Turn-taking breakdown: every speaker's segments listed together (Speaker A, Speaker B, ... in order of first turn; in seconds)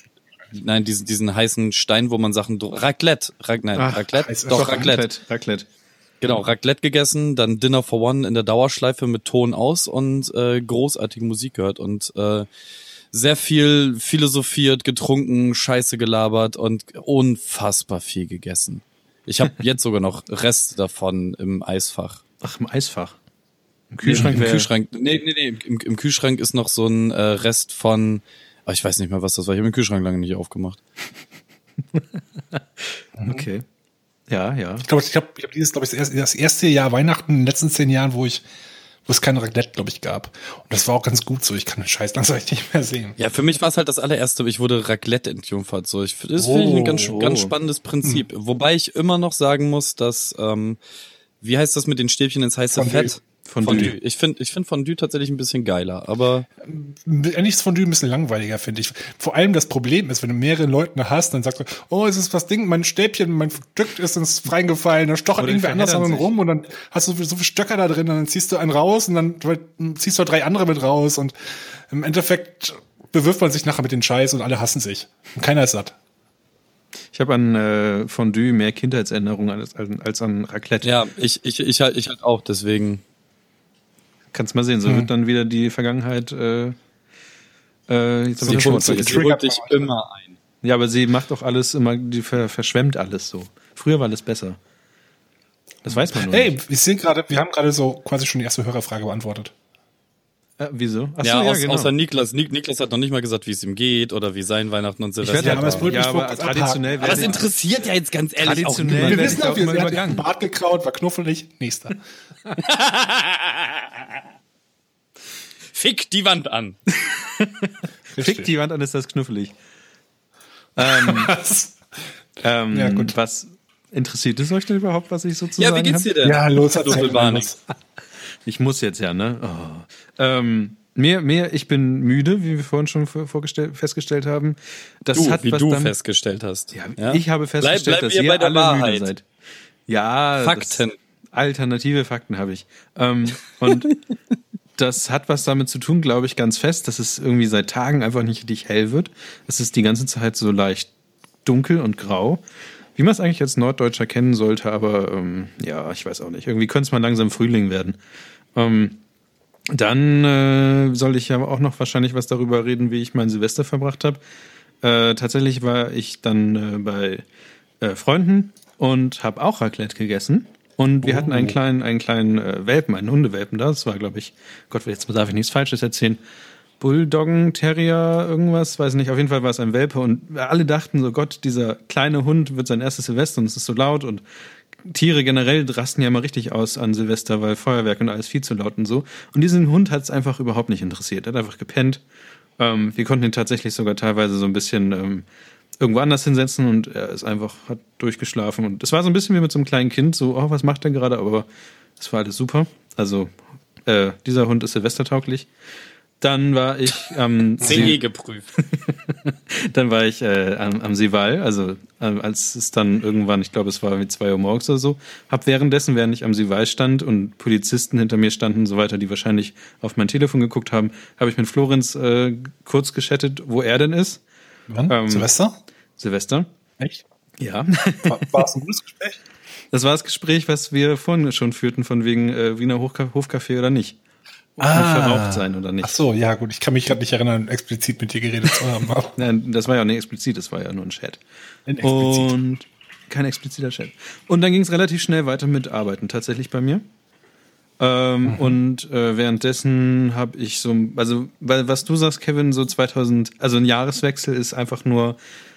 Speaker A: 0.5-5.0, 6.2-12.4, 13.1-22.2, 24.0-30.8, 43.2-50.8, 51.4-56.5, 80.8-83.0, 88.4-90.3, 101.2-105.9, 107.0-109.4, 112.6-113.9, 115.7-116.8, 125.6-127.5, 135.1-139.1, 140.4-140.9, 207.6-208.5
Speaker B: 3.7-5.7, 22.4-23.2, 23.9-24.7, 32.5-33.6, 34.3-34.9, 47.1-47.5, 53.4-53.9, 65.4-66.3, 77.1-80.9, 84.3-86.8, 87.9-89.2, 90.6-94.6, 95.8-96.5, 100.6-101.9, 105.2-107.4, 108.4-110.2, 117.1-119.5, 120.8-121.3, 122.4-126.1, 128.4-135.9, 136.7-139.2, 139.9-140.8, 141.3-143.9, 144.8-150.9, 151.4-152.4, 152.9-158.0, 158.5-159.0, 159.7-164.2, 164.8-167.2, 167.8-176.2, 176.8-184.2, 184.8-192.0, 192.6-195.2, 195.8-203.3, 203.8-205.5, 206.2-208.0, 208.7-224.2, 224.9-225.3, 226.0-226.5, 227.4-228.4, 229.7-234.0, 234.6-236.0, 239.2-241.2, 241.8-246.8, 247.8-255.2
Speaker C: 4.1-4.9, 24.2-24.4, 33.2-33.5, 34.8-38.4, 39.0-43.1, 46.4-47.2, 52.7-53.9, 56.6-75.9, 88.4-89.9, 96.1-99.5, 105.3-107.4, 109.0-112.0, 118.1-118.5, 120.8-121.8, 122.7-123.1, 126.2-127.6, 207.7-207.9, 224.7-225.5, 228.0-229.2, 234.6-239.2, 241.7-242.3, 248.2-248.6